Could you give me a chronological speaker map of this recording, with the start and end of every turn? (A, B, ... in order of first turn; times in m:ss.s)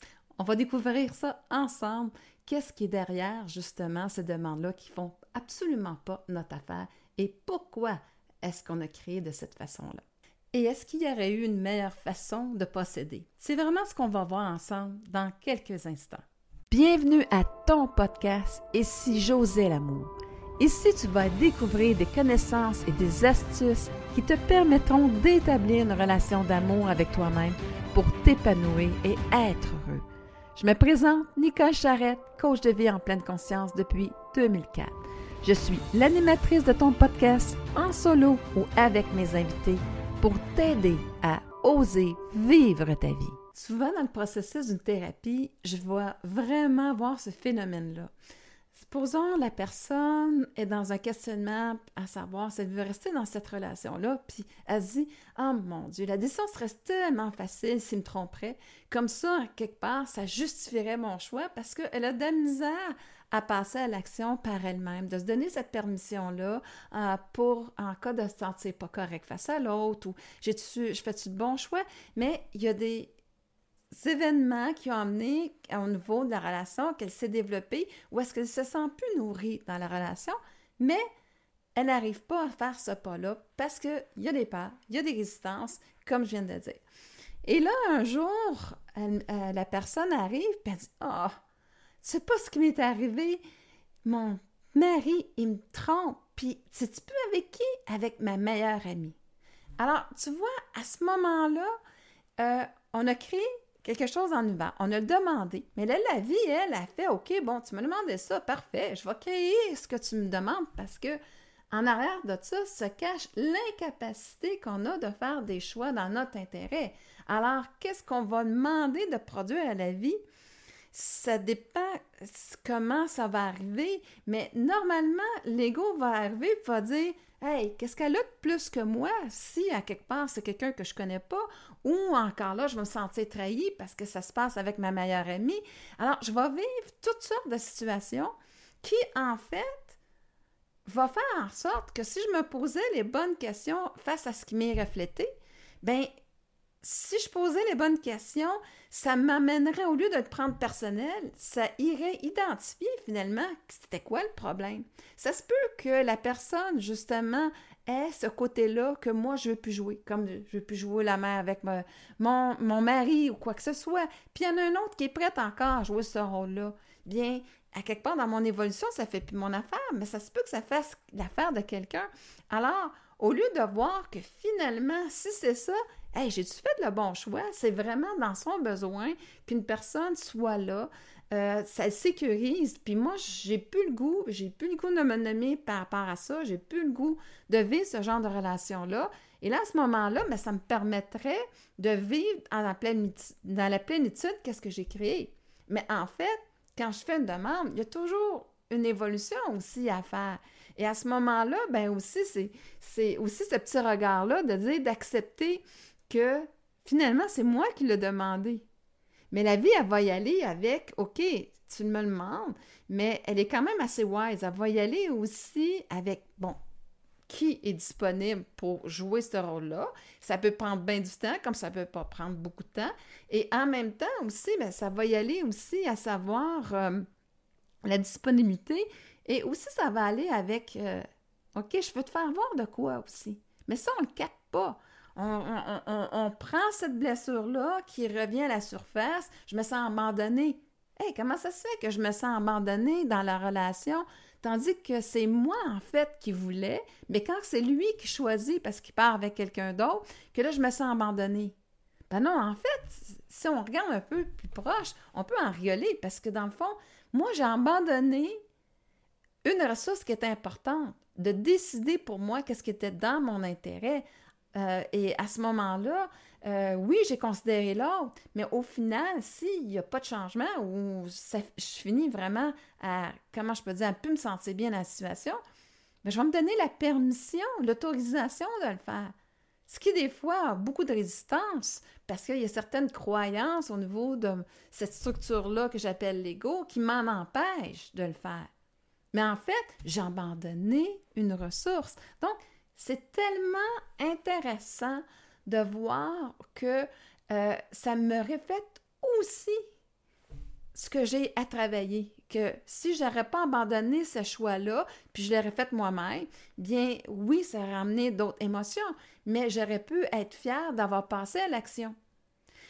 0:00.4-0:30.0 A
0:30.6-0:48.1 A
0:48.7-1:13.1 A
1:13.9-1:21.0 A
1:21.7-1:26.8 A
1:27.4-1:31.4 A
1:32.0-1:33.4 A
1:34.0-1:39.2 A
1:39.8-1:41.7 A
1:42.4-1:51.2 A
1:51.7-2:00.2 A
2:00.9-2:20.0 A
2:20.8-2:25.3 A
2:25.8-2:26.1 A
2:26.8-3:28.6 A
3:29.3-3:36.6 A
3:37.3-3:47.0 A
3:47.8-4:11.5 A
4:12.1-4:18.4 A
4:19.4-4:35.4 A
4:36.0-4:39.1 A
4:39.7-4:48.5 A
4:49.1-4:59.6 A
5:00.7-5:11.9 A